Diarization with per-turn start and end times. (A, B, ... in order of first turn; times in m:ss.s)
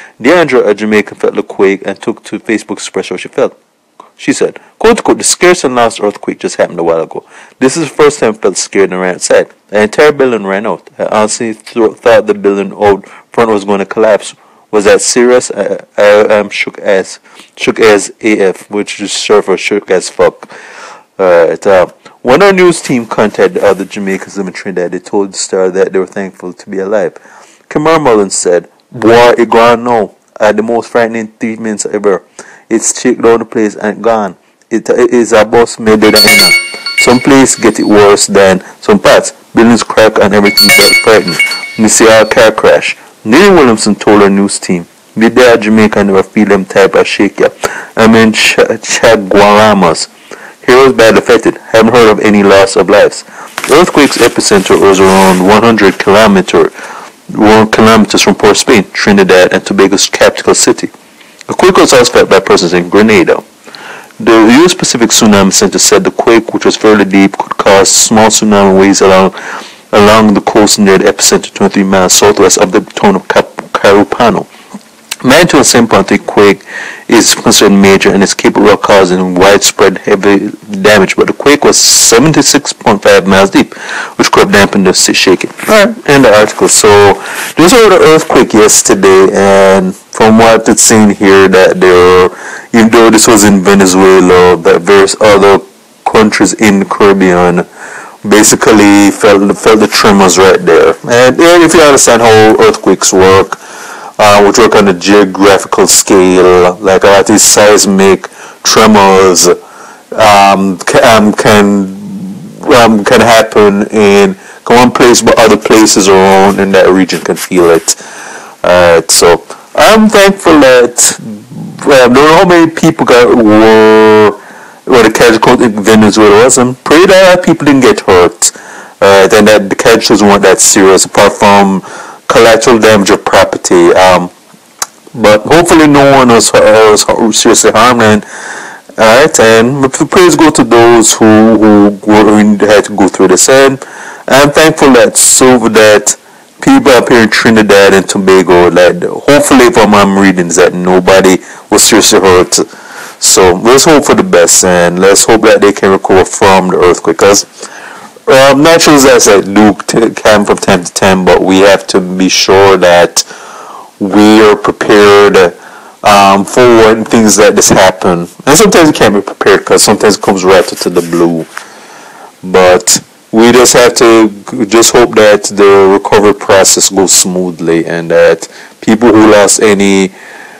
0:00.2-0:03.5 A
0:04.2-0:20.5 A
0:21.2-0:27.2 A
0:27.7-0:50.1 A
0:50.6-0:56.7 A
0:57.3-1:00.9 A
1:01.5-1:03.4 A
1:04.2-1:09.3 A
1:09.9-1:14.5 A
1:15.2-1:37.6 A
1:38.2-1:43.6 A
1:44.2-1:49.6 A
1:50.1-1:58.0 A
1:58.6-2:14.3 A
2:15.1-2:18.2 A
2:19.0-2:32.6 A
2:33.2-2:37.4 A
2:38.2-2:43.2 A
2:44.0-2:51.5 A
2:52.4-3:00.1 A